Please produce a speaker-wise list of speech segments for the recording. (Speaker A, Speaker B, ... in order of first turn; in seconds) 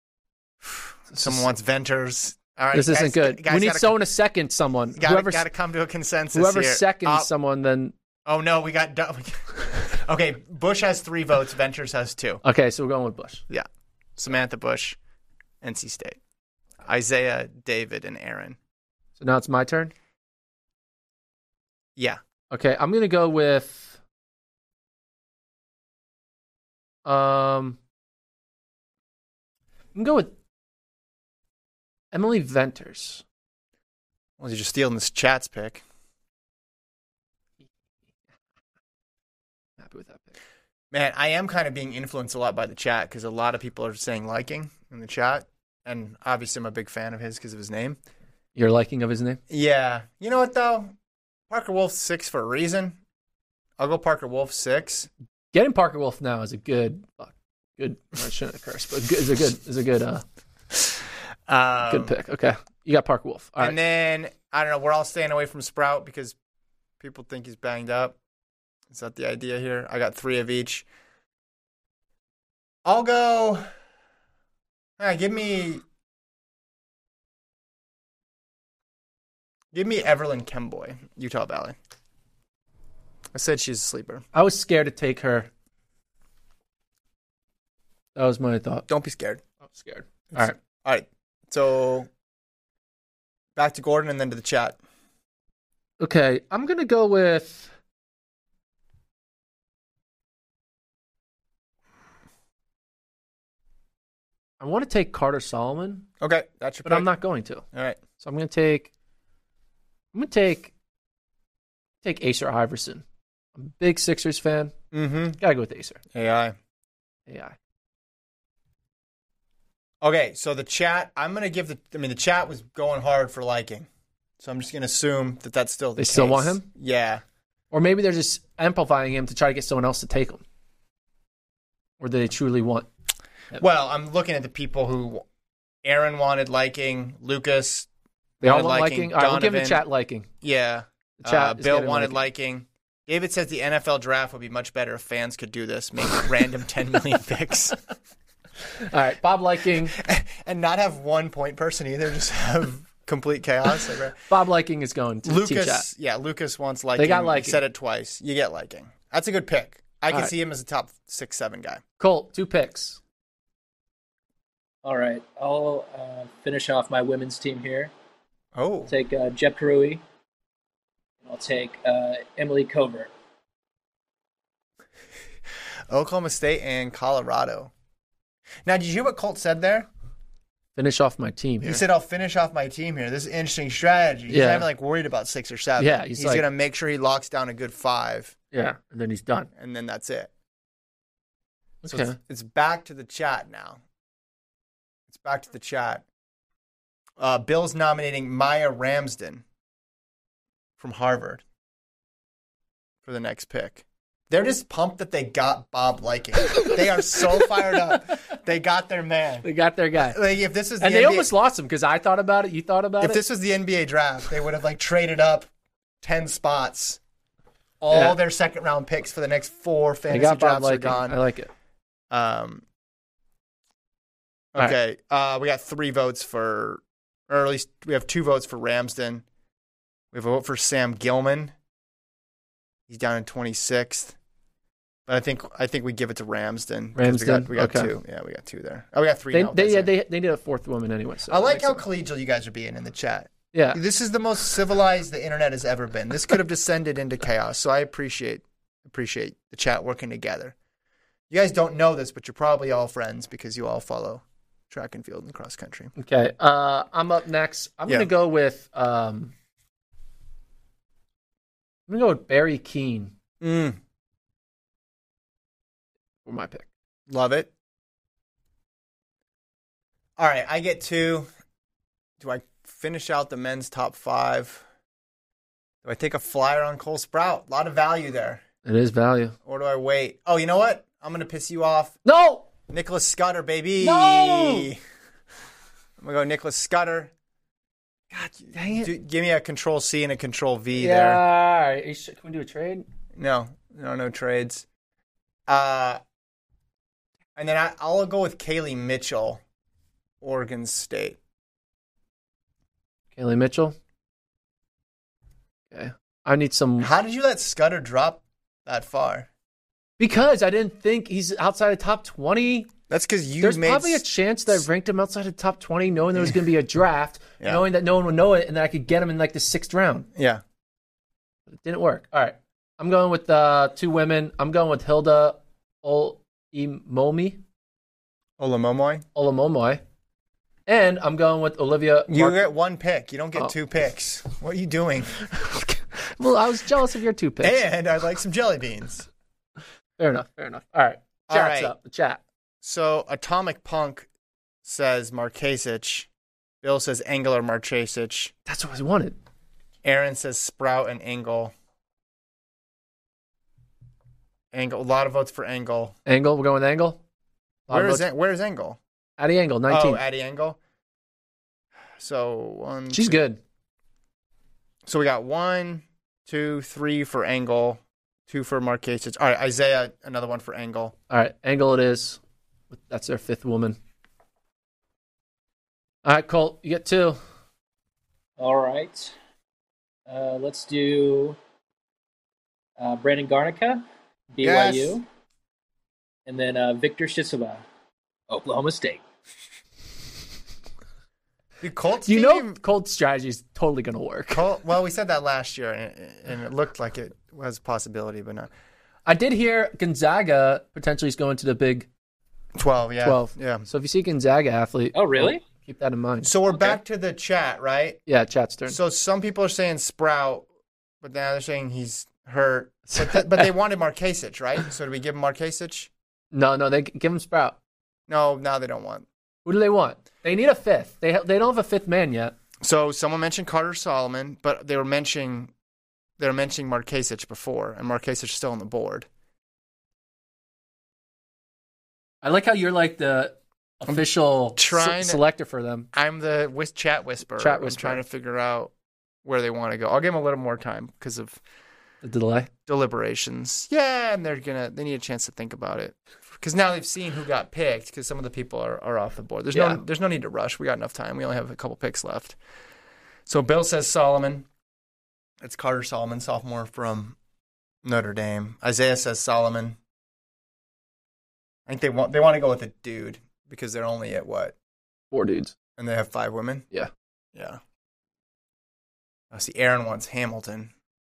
Speaker A: 0.6-4.0, 5.0-7.3, 8.3-12.4, 13.5-15.0, 15.6-16.2, 16.8-18.6, 34.4-35.8, 40.9-48.0, 49.5-50.9, 51.5-53.0, 53.8-55.1, 61.5-62.1, 63.6-66.3, 67.0-68.2, 68.9-70.8, 72.8-73.7, 75.0-75.8, 79.7-81.8, 83.3-84.2, 88.9-89.4, 90.3-92.1, 93.6-94.8, 106.2-107.1, 107.7-108.0, 114.9-115.4, 116.1-116.5, 120.0-123.9, 124.4-127.2, 133.6-135.2, 135.8-137.9, 138.4-139.8, 140.4-147.8, 149.9-154.2, 155.2-161.8, 168.6-168.9, 175.9-177.7, 178.7-179.9, 181.6-188.3, 189.6-190.3, 191.9-193.8, 195.1-196.1, 197.2-199.4, 200.8-201.4, 203.0-209.5, 210.1-211.3, 213.0-215.5, 216.0-217.0, 217.8-221.2, 222.1-222.6, 224.5-229.2, 230.1-231.5, 232.9-234.2, 235.1-239.9, 241.3-250.5, 251.3-255.9, 263.4-263.8, 267.1-267.5, 270.2-271.3, 272.2-274.6, 275.8-278.4, 279.5-282.0, 282.7-284.8, 286.0-287.1, 288.1-291.2, 293.2-294.6, 295.5-296.0, 297.4-299.4, 300.2-301.2, 306.8-309.3, 312.9-314.0, 320.2-320.4, 328.4-329.1, 332.1-335.2, 337.4-339.1, 341.3-341.7, 342.6-344.1, 344.6-346.1, 346.6-348.3, 349.8-351.5, 354.5-356.0, 357.7-358.8, 359.7-360.6, 362.0-363.2, 364.9-370.9, 384.4-385.0, 391.6-392.6, 394.3-398.5, 402.6-403.7, 406.2-408.0, 408.7-410.5, 411.0-415.9, 418.1-419.1, 422.6-425.5, 426.2-429.1, 434.6-435.2, 435.9-438.7, 439.2-441.4, 442.7-452.4, 453.3-454.5, 455.4-457.2, 457.8-459.8, 461.7-464.5, 465.8-466.7, 467.4-467.6, 469.3-470.7
Speaker B: 1.1-1.5, 2.7-5.5, 6.3-7.9, 12.4-13.4, 19.2-19.9, 22.5-24.0, 27.1-27.8, 29.9-30.3, 32.1-33.2, 39.8-40.4, 48.5-49.4, 55.5-60.2, 61.9-63.8, 84.3-85.5, 88.2-88.9, 89.7-90.6, 96.0-97.7, 104.6-106.1, 106.8-107.7, 108.2-108.9, 110.1-110.7, 112.0-113.0, 113.6-114.8, 115.4-116.0, 117.3-117.5, 126.0-126.7, 127.7-130.4, 132.0-132.9, 138.4-140.3, 141.2-142.2, 148.8-150.0, 154.3-155.8, 157.0-157.6, 162.0-163.0, 180.8-181.8, 184.3-184.7, 185.8-186.4, 188.5-189.5, 191.8-192.2, 206.5-207.2, 209.4-210.2, 210.8-213.2, 217.9-218.2, 220.1-221.5, 237.0-237.9, 239.3-241.8, 243.5-243.8, 256.0-259.3, 261.9-263.1, 266.2-266.7, 278.6-279.4, 282.1-282.5, 283.8-284.7, 288.5-288.9, 290.8-292.9, 303.1-303.8, 305.7-306.9, 310.0-312.7, 313.4-320.1, 321.5-327.4, 329.1-329.8, 330.7-332.4, 335.3-337.6, 340.0-342.2, 348.5-349.2, 356.1-357.0, 357.7-358.0, 359.2-360.0, 362.9-363.4, 371.1-372.2, 372.7-373.8, 376.0-377.2, 392.1-394.4, 399.1-401.9, 403.0-406.3, 408.1-408.8, 412.9-413.5, 416.3-417.6, 419.4-422.4, 432.2-435.9, 437.4-438.0, 442.0-442.5, 449.5-449.8, 465.1-465.6
Speaker C: 164.8-167.9, 168.9-170.0, 171.2-173.1, 378.4-379.1, 380.1-381.4, 382.8-385.1, 386.3-387.6, 388.3-389.0, 404.9-405.4